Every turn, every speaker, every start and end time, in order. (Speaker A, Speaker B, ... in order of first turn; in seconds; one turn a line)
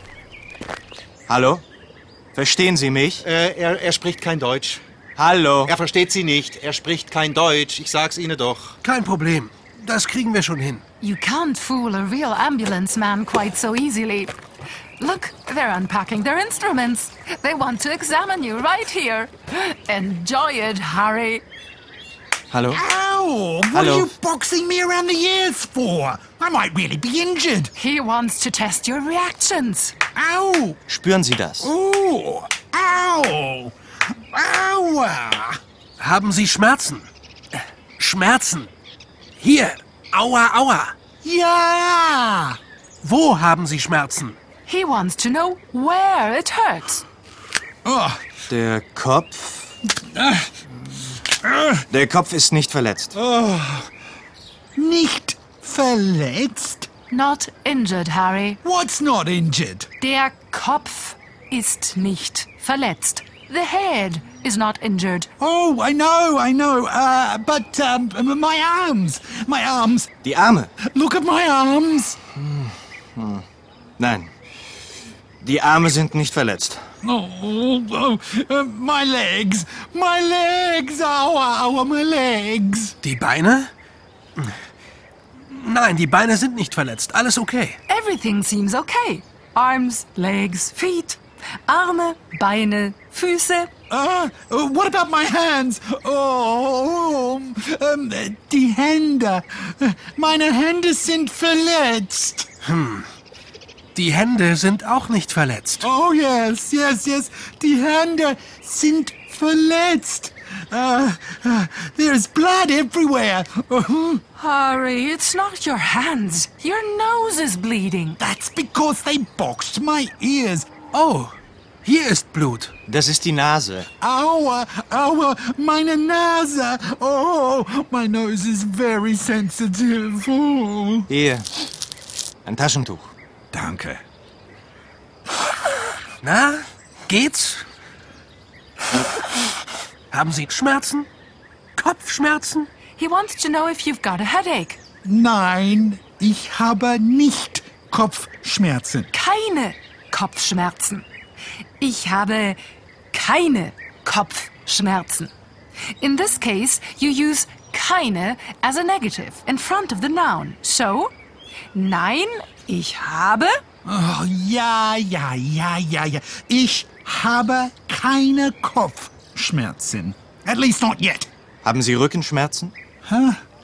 Speaker A: 1.3-1.6
Speaker A: 2.4-3.3
Speaker B: 3.2-4.8
Speaker A: 5.2-5.7
Speaker B: 5.7-8.8
Speaker C: 8.8-10.8
Speaker D: 11.0-14.3
Speaker D: 15.0-21.4
Speaker A: 22.5-22.8
Speaker E: 22.7-27.7
Speaker A: 23.7-24.1
Speaker D: 27.8-29.9
Speaker E: 30.1-30.8
Speaker A: 30.9-31.7
Speaker E: 31.6-33.8
Speaker E: 34.3-35.6
Speaker C: 36.0-38.7
Speaker C: 39.4-40.9
Speaker E: 41.2-42.6
Speaker C: 43.0-44.4
Speaker D: 44.7-47.0
Speaker E: 47.9-48.2
Speaker A: 48.5-49.7
Speaker E: 50.0-50.5
Speaker E: 51.3-51.9
Speaker A: 51.9-53.2
Speaker E: 53.1-53.9
Speaker E: 54.8-56.9
Speaker D: 57.1-58.6
Speaker E: 58.6-59.9
Speaker D: 60.0-65.3
Speaker E: 65.4-70.1
Speaker A: 70.2-70.7
Speaker E: 70.8-72.2
Speaker A: 72.3-73.5
Speaker A: 74.0-74.3
Speaker A: 75.4-76.8
Speaker E: 77.0-83.0
Speaker C: 83.0-83.7
Speaker C: 85.5-87.8
Speaker D: 87.9-93.7
Speaker E: 93.9-102.5
Speaker C: 102.7-103.1
Speaker C: 104.0-105.8
Speaker E: 105.8-114.2
Speaker D: 114.4-118.2
Speaker E: 118.2-120.7
Speaker C: 120.9-122.7
Speaker A: 122.9-123.9
Speaker E: 124.0-131.1
Speaker A: 131.1-131.5
Speaker A: 132.5-133.1
Speaker C: 136.2-137.6
Speaker C: 140.1-141.1
Speaker C: 141.8-142.7
Speaker D: 143.0-144.8
Speaker E: 145.0-149.1
Speaker D: 149.1-151.1
Speaker D: 151.8-152.6
Speaker D: 153.1-155.3
Speaker D: 156.0-161.1
Speaker D: 161.7-163.6
Speaker E: 163.8-171.3
Speaker A: 171.6-172.7
Speaker E: 173.1-173.4